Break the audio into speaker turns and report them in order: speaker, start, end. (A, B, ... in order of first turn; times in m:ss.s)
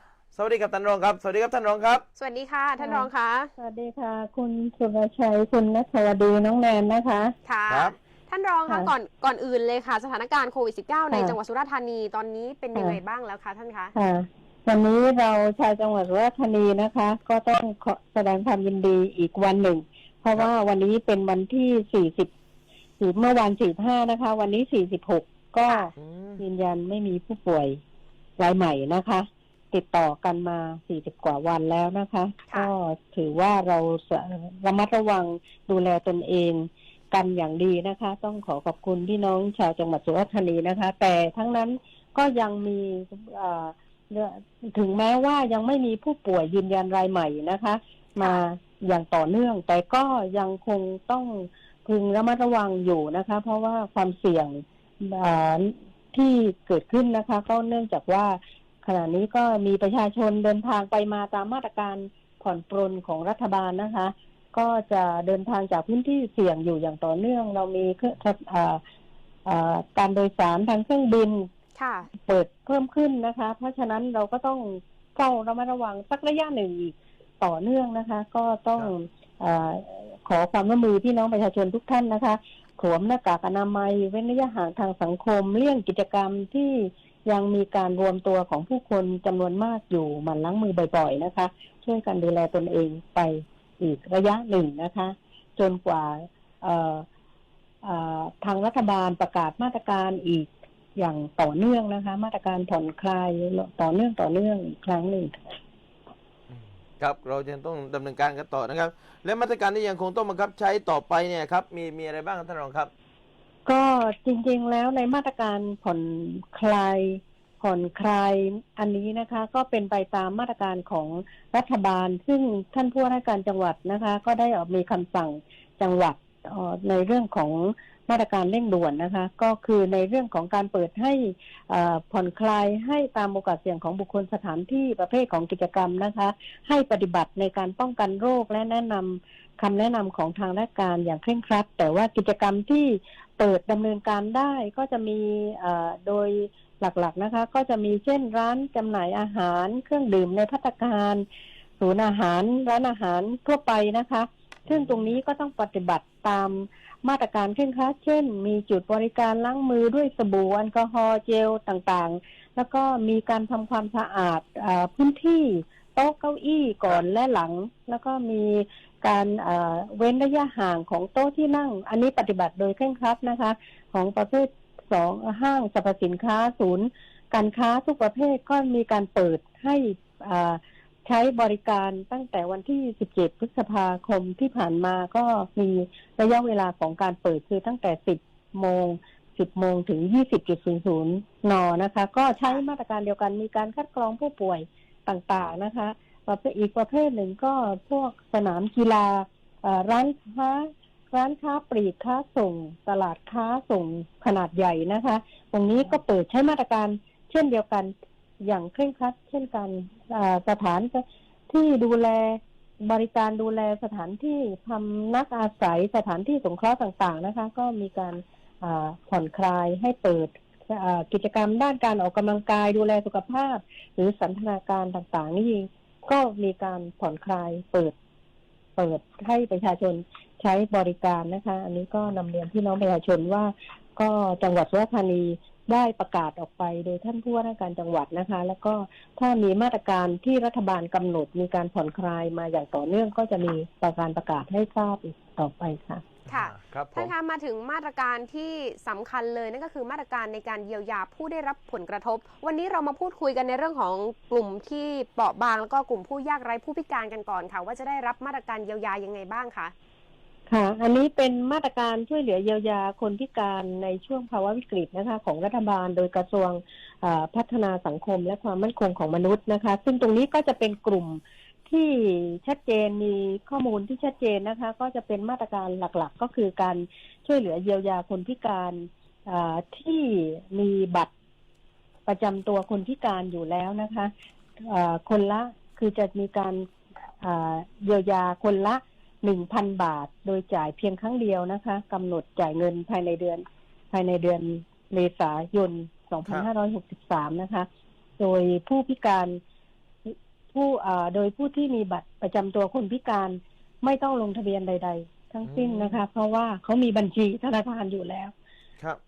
0:00.3-0:02.0 A
0:02.2-0:03.5 B
0:02.8-0:03.1 C
0:03.6-0:07.3 C
0:07.5-0:13.9 B
0:11.1-0:11.4 C
0:14.0-0:22.3 C
0:23.0-0:27.8 C
0:25.6-0:25.9 B
0:26.0-0:26.4 A
0:28.4-1:08.8 C
1:09.4-1:11.5 C
1:11.8-1:12.1 B
1:12.2-1:37.0 C
1:37.8-1:45.5 C
1:46.5-1:52.9 A
1:53.7-2:31.2 C
2:31.8-3:47.9 C
2:34.7-2:35.0 A
3:48.8-4:06.0 C
4:06.3-4:07.1 A
4:06.3-4:19.7 B
4:20.5-4:41.1 C
4:42.1-4:46.7 C
4:47.2-4:57.7 C
4:58.2-4:59.4 C
5:00.1-5:08.3 C
5:05.4-5:06.0 A